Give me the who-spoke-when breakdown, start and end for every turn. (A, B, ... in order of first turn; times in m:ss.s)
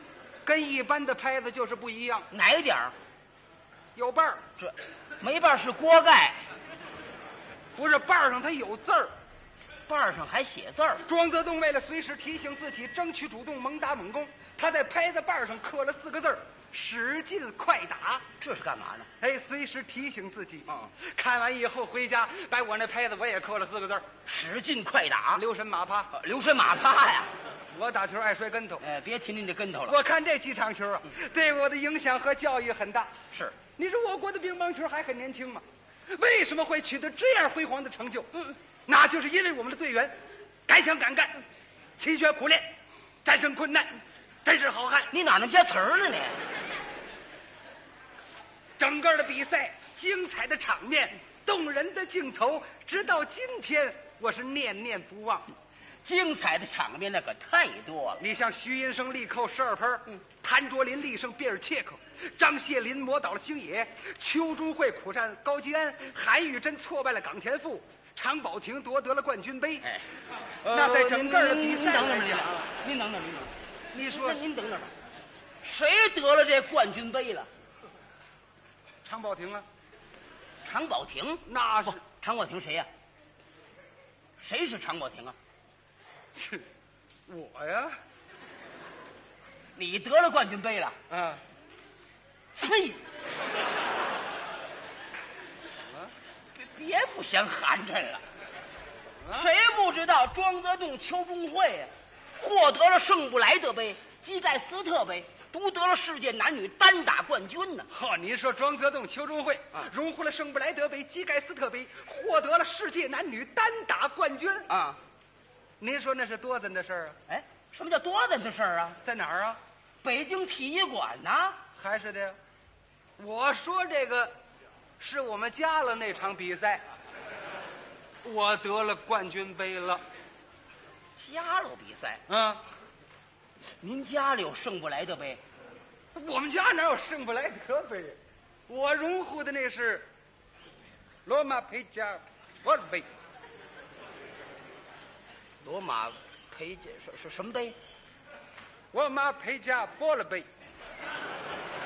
0:00.5-0:02.3 A
0:02.3-0:03.0 B
0:04.0-0:04.4 A
0:04.6-0:06.4 B
0:07.8-0:09.1 A
0:09.9-0:11.0 B
0:11.1-0:18.2 A
0:18.4-0:19.1 B
0:19.2-0:24.1 A
0:24.3-0:25.4 B
0:25.4-0:26.1 A
0:26.1-0:27.3 B
0:27.7-0:28.8 A
0:28.8-0:30.0 B
0:29.9-0:33.1 A
0:33.8-0:38.3 A
0:38.9-0:40.2 A
0:40.7-0:41.4 A
0:42.0-0:42.7 A
0:43.2-0:45.1 A
0:45.1-0:46.4 B
0:48.8-0:55.5 A
0:56.0-0:58.2 B
0:58.2-1:09.9 A
1:10.6-1:14.9 B
1:10.7-1:12.7 A
1:13.9-1:14.4 A
1:15.6-1:17.5 B
1:19.0-1:19.6 A
1:20.6-1:22.9 B
1:21.5-1:22.0 A
1:24.4-1:25.4 B
1:26.4-1:26.7 A
1:27.3-1:28.0 A
1:29.8-1:31.0 B
1:31.1-1:31.4 A
1:32.6-1:33.0 B
1:36.6-1:38.2 B
1:39.2-1:39.5 A
1:39.3-1:47.9 B
1:47.9-1:54.7 A
1:54.7-1:55.0 B
1:55.8-1:57.2 A
1:57.3-1:59.0 B
1:59.0-1:59.6 A
2:00.0-2:01.6 B
2:01.8-2:02.4 A
2:03.2-2:04.4 A
2:05.0-2:06.8 A
2:08.2-2:10.0 A
2:11.2-2:12.2 B
2:12.3-2:12.6 A
2:13.8-2:15.4 B
2:16.2-2:18.2 A
2:18.7-2:20.1 A
2:21.3-2:23.1 A
2:25.6-2:27.8 B
2:28.9-2:30.5 A